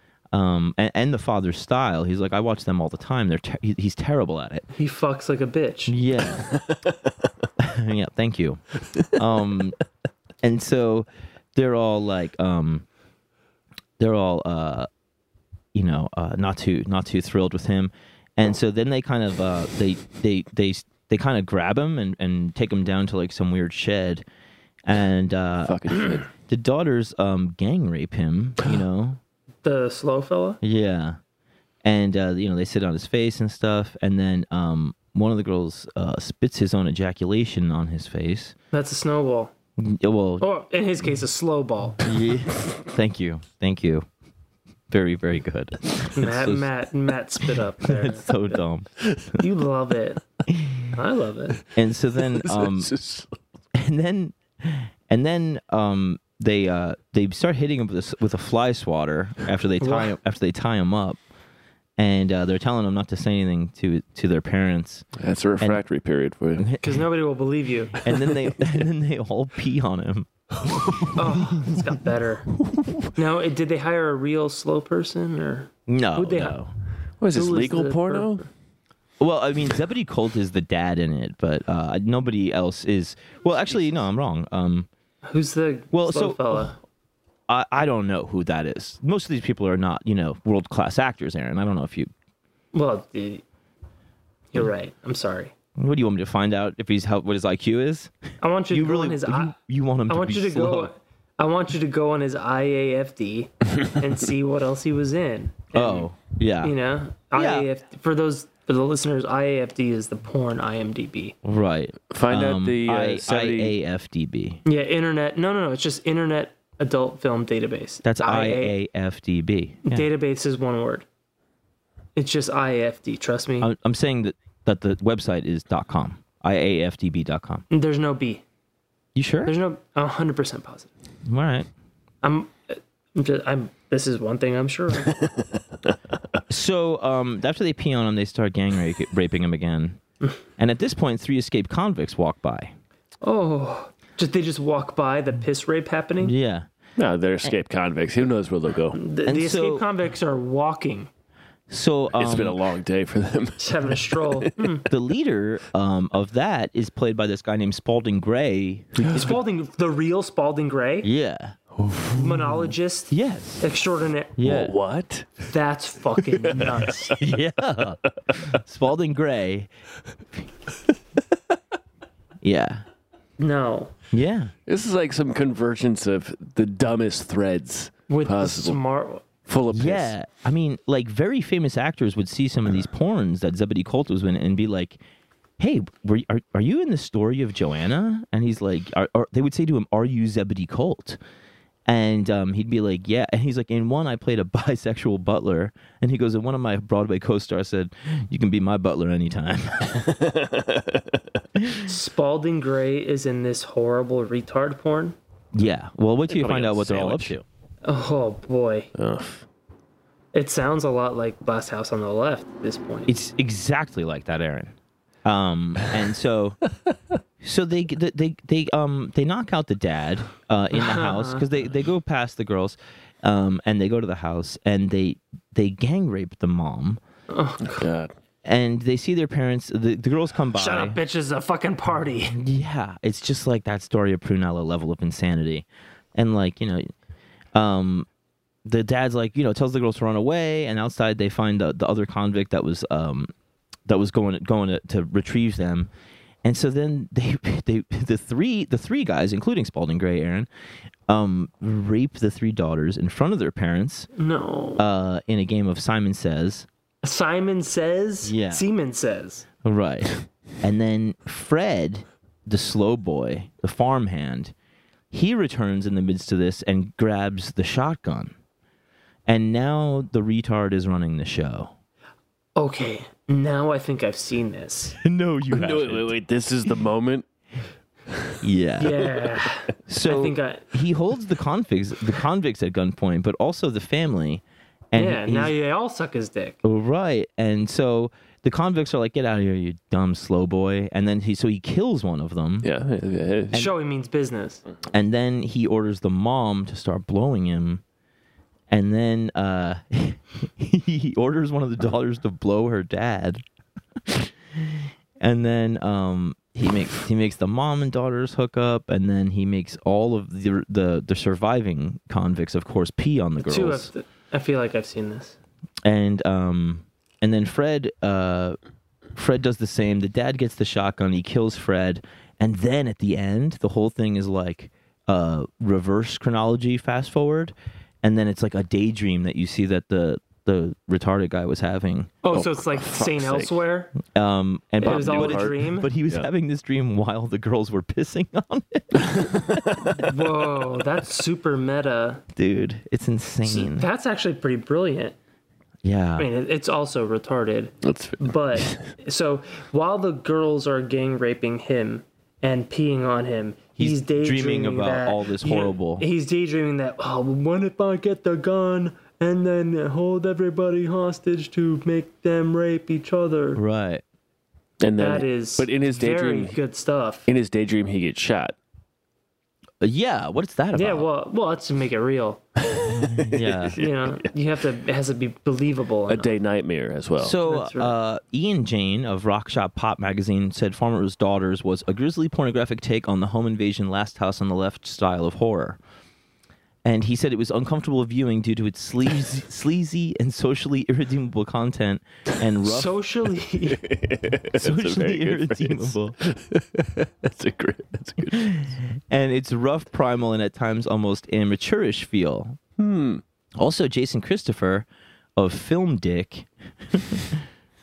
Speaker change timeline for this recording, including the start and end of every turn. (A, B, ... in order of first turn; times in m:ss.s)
0:00.3-0:04.7 A
0:04.8-0:05.9 B
0:05.9-0:06.5 A
0:06.4-0:06.9 C
0:07.6-0:09.8 A
0:10.4-0:12.8 A
0:14.0-0:14.9 A
0:15.8-0:24.2 A
0:24.8-0:29.2 A
0:25.6-0:26.3 C
0:29.6-0:30.6 B
0:30.6-0:31.2 A
0:31.8-0:38.6 A
0:38.7-0:39.5 B
0:39.8-0:40.5 A
0:40.4-0:42.0 B
0:42.0-0:44.1 A
0:44.9-0:46.7 A
0:46.2-0:48.4 B
0:47.8-0:49.4 A
0:49.4-0:50.2 B
0:50.9-0:51.6 B
0:51.8-0:52.9 A
0:52.3-0:53.4 C
0:53.7-1:01.2 A
0:59.8-1:00.1 B
1:02.0-1:05.1 A
1:05.2-1:06.7 C
1:06.6-1:07.0 A
1:06.8-1:08.0 B
1:08.0-1:10.3 A
1:10.7-1:11.1 C
1:10.8-1:11.8 A
1:11.2-1:12.5 B
1:13.2-1:16.6 B
1:15.9-1:16.7 A
1:17.2-1:18.4 C
1:17.3-1:18.5 B
1:19.2-1:24.9 A
1:25.2-1:26.8 B
1:25.9-1:26.8 A
1:27.5-1:32.1 A
1:32.7-1:33.4 B
1:34.5-1:35.5 B
1:35.8-1:38.1 A
1:38.4-1:39.5 B
1:38.7-1:40.9 A
1:40.1-1:46.1 B
1:45.7-1:46.8 A
1:46.6-1:51.4 B
1:47.4-1:47.7 A
1:51.4-1:54.6 A
1:52.1-1:53.7 C
1:54.6-1:58.7 B
1:58.0-2:00.1 A
1:59.8-2:01.0 B
2:02.2-2:03.7 B
2:03.6-2:07.6 A
2:07.7-2:08.4 B
2:09.2-2:09.6 A
2:09.4-2:10.9 B
2:11.3-2:11.7 A
2:12.2-2:15.2 B
2:16.5-2:20.0 A
2:20.6-2:22.7 A
2:23.2-2:26.3 B
2:26.2-2:26.7 A
2:27.0-2:29.0 C
2:29.0-2:31.1 B
2:29.3-2:29.8 A
2:31.7-2:32.6 A
2:32.2-2:34.8 C
2:33.6-2:34.9 B
2:34.9-2:39.4 A
2:39.1-2:41.1 B
2:41.0-2:41.6 A
2:41.8-2:42.2 C
2:42.2-2:44.4 B
2:43.1-2:43.6 A
2:44.4-2:44.8 A
2:44.4-2:45.5 C
2:45.5-2:47.2 B
2:46.5-2:47.2 C
2:47.2-2:49.7 A
2:52.4-2:52.8 A
2:53.4-2:53.9 B
2:54.1-2:54.5 A
2:54.7-2:58.8 C
2:58.1-2:59.2 B
2:59.5-3:00.1 C
2:59.7-3:05.0 A
3:05.6-3:11.2 A
3:11.9-3:20.1 A
3:19.9-3:21.2 C
3:21.6-3:21.8 A
3:21.9-3:25.2 B
3:25.5-3:27.4 A
3:26.3-3:27.3 C
3:27.8-3:28.9 B
3:29.0-3:29.4 C
3:30.3-3:33.1 B
3:33.1-3:36.6 A
3:37.4-3:47.0 A
3:40.7-3:41.4 B
3:47.3-3:47.8 B
3:47.6-3:48.1 C
3:48.4-3:51.0 A
3:50.6-3:52.4 B
3:52.3-3:56.9 A
3:57.5-3:58.1 A
3:58.6-4:03.3 A
4:03.9-4:05.9 A
4:06.4-4:10.5 A
4:11.1-4:14.1 A
4:14.2-4:14.8 B
4:14.8-4:16.7 A
4:17.0-4:19.5 B
4:18.2-4:18.7 A
4:19.6-4:24.5 A
4:25.1-4:28.3 A
4:29.3-4:31.7 A
4:32.6-4:35.0 B
4:35.0-4:36.2 A
4:35.5-4:37.3 C
4:38.4-4:39.2 A
4:38.8-4:40.7 B
4:39.9-4:45.5 A
4:45.0-4:46.6 B
4:46.6-4:52.7 A
4:52.6-4:53.6 C
4:53.5-4:54.6 B
4:54.9-4:57.8 A
4:58.7-5:03.4 A
5:04.1-5:13.9 A
5:13.4-5:15.4 B
5:15.8-5:18.6 A
5:19.2-5:32.2 A
5:32.2-5:33.9 B
5:32.3-5:33.5 C
5:34.1-5:40.0 A
5:34.8-5:35.9 B
5:34.8-5:35.6 C
5:39.0-5:39.9 C
5:40.0-5:42.2 B
5:42.4-5:43.9 A
5:43.4-5:45.2 B
5:45.8-5:46.3 A
5:46.2-6:03.6 B
5:47.8-5:48.9 C
5:53.8-5:56.1 A
6:03.6-6:04.0 A
6:04.8-6:06.6 C
6:05.0-6:07.3 B
6:07.3-6:08.6 C
6:09.8-6:11.1 A
6:10.7-6:12.4 B
6:12.7-6:14.3 C
6:13.1-6:13.8 A
6:13.8-6:16.3 B
6:16.1-6:17.4 C
6:17.2-6:25.8 A
6:17.4-6:17.9 B
6:26.8-6:32.9 A
6:32.6-6:33.8 B
6:33.7-6:38.6 C
6:34.6-6:36.2 A
6:38.3-6:42.6 A
6:42.8-6:43.2 C
6:43.6-6:47.4 A